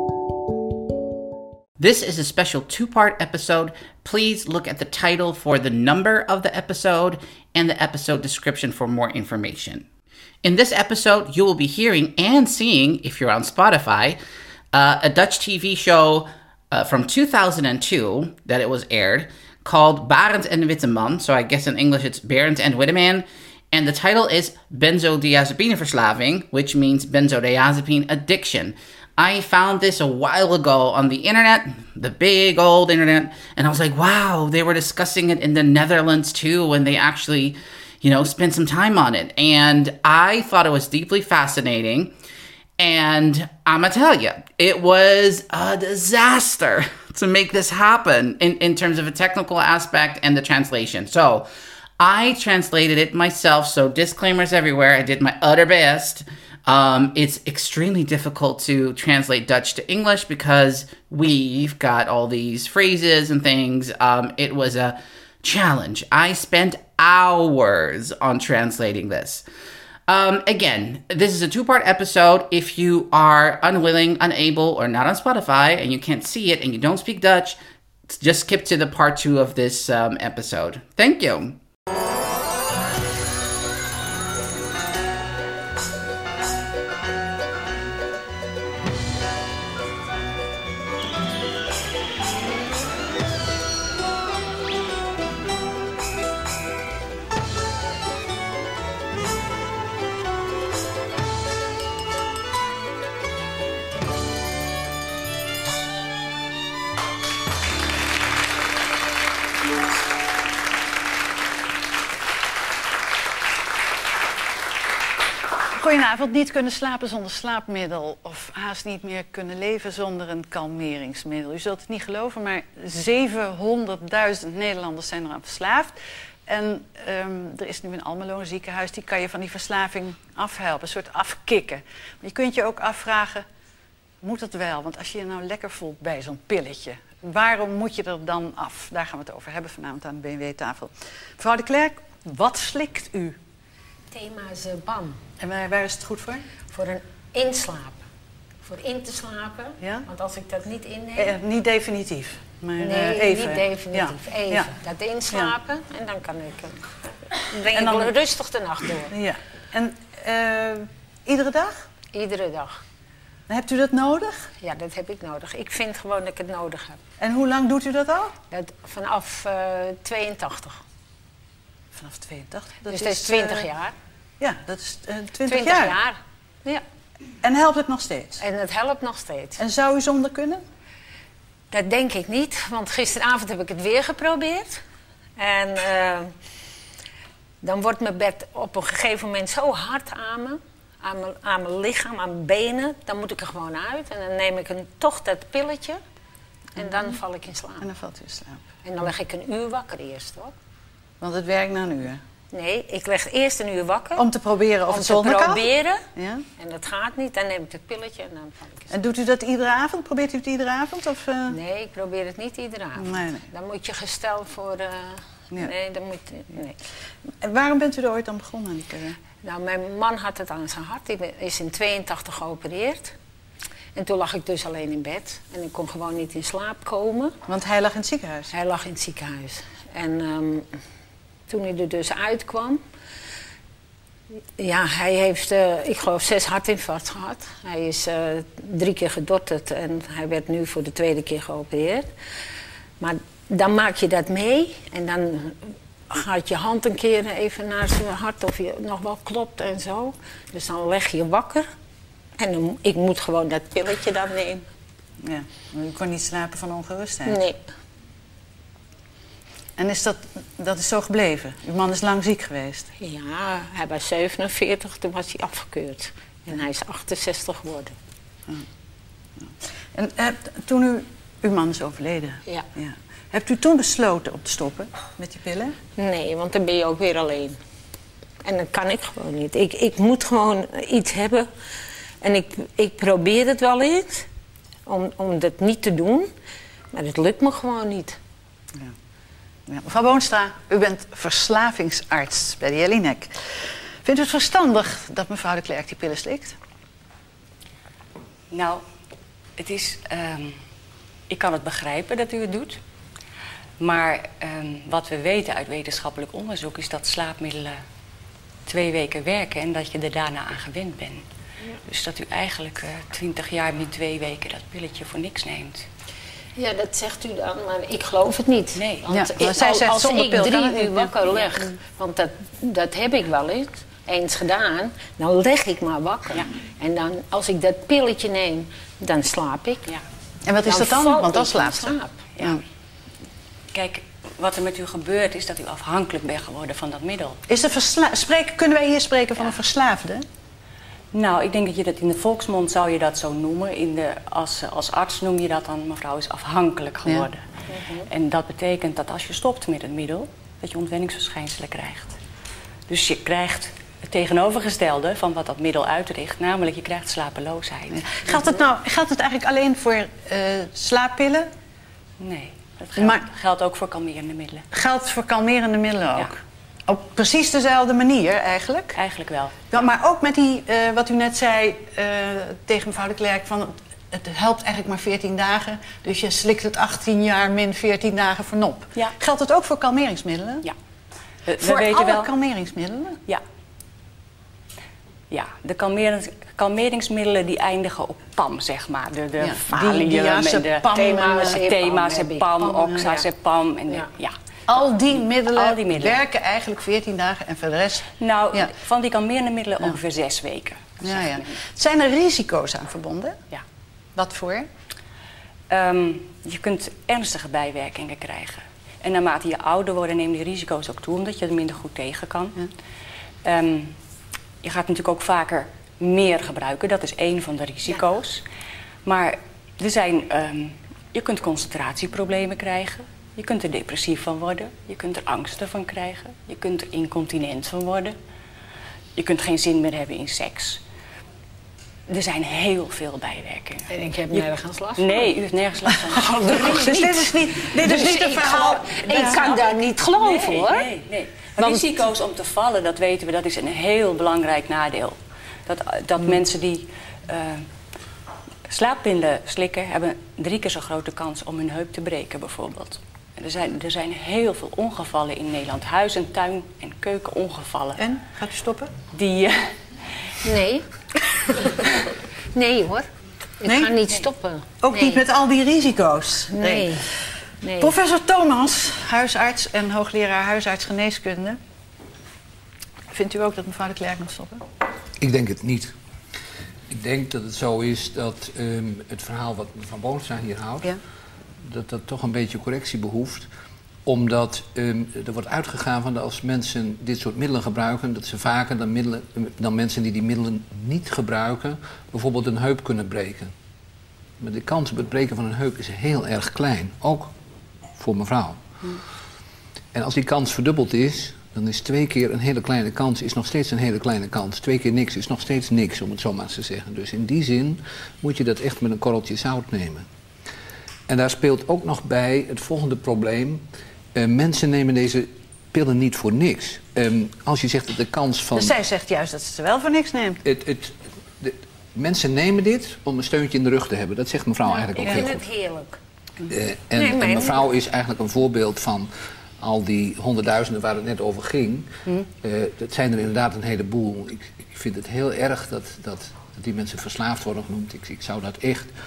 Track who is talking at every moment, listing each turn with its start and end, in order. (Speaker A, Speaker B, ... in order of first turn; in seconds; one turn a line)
Speaker A: 1.8-9.9
Speaker A: 10.4-14.2
Speaker A: 14.7-42.1
Speaker A: 42.8-51.5
Speaker A: 52.0-69.4
Speaker A: 70.1-81.6
Speaker B: 115.8-126.0
Speaker B: 126.5-133.5
Speaker B: 134.2-143.4
Speaker C: 144.1-145.2
Speaker B: 145.4-146.4
Speaker C: 146.7-148.0
Speaker C: 148.6-151.4
Speaker B: 149.8-150.1
Speaker B: 151.2-154.7
Speaker C: 152.8-156.8
Speaker C: 157.4-159.1
Speaker B: 157.7-158.2
Speaker B: 159.1-161.9
Speaker C: 162.1-162.8
Speaker B: 163.5-164.5
Speaker C: 164.6-167.0
Speaker B: 167.2-168.3
Speaker C: 168.5-170.8
Speaker B: 171.9-173.7
Speaker C: 172.9-173.9
Speaker B: 174.4-176.0
Speaker C: 175.5-176.8
Speaker B: 177.4-178.4
Speaker C: 178.4-179.6
Speaker B: 179.6-180.6
Speaker C: 181.7-184.8
Speaker C: 185.4-186.3
Speaker C: 187.6-196.0
Speaker C: 196.8-197.9
Speaker B: 197.8-198.6
Speaker C: 198.8-200.5
Speaker B: 201.2-202.2
Speaker C: 202.5-204.3
Speaker B: 204.2-206.4
Speaker C: 204.9-206.1
Speaker C: 206.6-208.9
Speaker B: 208.9-211.6
Speaker C: 211.5-216.8
Speaker B: 213.0-213.5
Speaker B: 217.4-219.2
Speaker C: 219.4-223.2
Speaker C: 223.9-227.4
Speaker B: 227.5-228.5
Speaker C: 228.5-230.7
Speaker C: 231.5-232.8
Speaker C: 234.6-242.1
Speaker C: 243.0-251.7
Speaker C: 252.4-254.7
Speaker B: 255.2-257.4
Speaker C: 257.3-257.6
Speaker B: 259.8-262.9
Speaker C: 263.0-268.0
Speaker B: 269.4-275.8
Speaker C: 276.0-277.6
Speaker C: 278.4-281.5
Speaker C: 282.2-284.3
Speaker C: 284.9-286.3
Speaker C: 286.9-288.2
Speaker B: 289.7-296.6
Speaker D: 298.5-298.8
Speaker D: 299.6-300.6
Speaker D: 301.3-302.8
Speaker D: 303.8-307.8
Speaker D: 308.7-311.2
Speaker D: 311.9-315.9
Speaker C: 316.6-329.9
Speaker D: 318.8-319.0
Speaker B: 319.1-321.1
Speaker B: 330.4-332.6
Speaker C: 330.6-332.2
Speaker D: 333.7-337.4
Speaker B: 337.5-340.2
Speaker D: 341.1-347.4
Speaker C: 347.7-348.1
Speaker D: 348.1-352.2
Speaker D: 352.9-358.1
Speaker B: 357.9-361.5
Speaker D: 362.2-364.7
Speaker B: 363.0-363.3
Speaker B: 364.7-369.0
Speaker D: 368.9-369.7
Speaker B: 369.7-380.7
Speaker D: 381.5-382.3
Speaker B: 381.6-383.2
Speaker D: 385.3-390.9
Speaker B: 389.4-391.6
Speaker C: 390.9-392.7
Speaker D: 391.5-394.4
Speaker B: 392.7-393.1
Speaker B: 394.7-398.7
Speaker D: 395.2-396.2
Speaker D: 398.2-401.6
Speaker B: 401.0-403.4
Speaker B: 404.1-404.7
Speaker D: 405.7-412.7
Speaker D: 413.4-413.9
Speaker D: 414.6-418.4
Speaker D: 419.1-428.2
Speaker D: 429.1-430.8
Speaker D: 432.1-434.4
Speaker C: 433.9-435.3
Speaker D: 435.0-437.0
Speaker C: 436.2-437.2
Speaker B: 436.4-439.4
Speaker C: 437.9-440.9
Speaker D: 437.9-447.7
Speaker B: 441.6-441.9
Speaker D: 448.7-458.1
Speaker B: 458.0-458.9
Speaker D: 459.1-459.7
Speaker C: 460.4-460.9
Speaker C: 462.5-463.1
Speaker C: 463.6-465.2
Speaker B: 463.7-463.9
Speaker B: 464.8-467.0
Speaker C: 466.5-467.1
Speaker C: 467.6-467.9
Speaker B: 467.8-471.6
Speaker B: 473.1-474.6
Speaker E: 475.2-475.9
Speaker E: 476.9-480.9
Speaker E: 481.6-483.5
Speaker E: 484.1-493.5
Speaker E: 494.4-497.3
Speaker E: 498.0-498.6
Speaker E: 499.9-510.1
Speaker E: 511.1-513.6
Speaker E: 514.1-518.7
Speaker B: 518.5-520.4
Speaker E: 520.4-525.4
Speaker C: 524.8-526.0
Speaker E: 526.5-529.1
Speaker C: 527.0-527.6
Speaker E: 529.6-538.9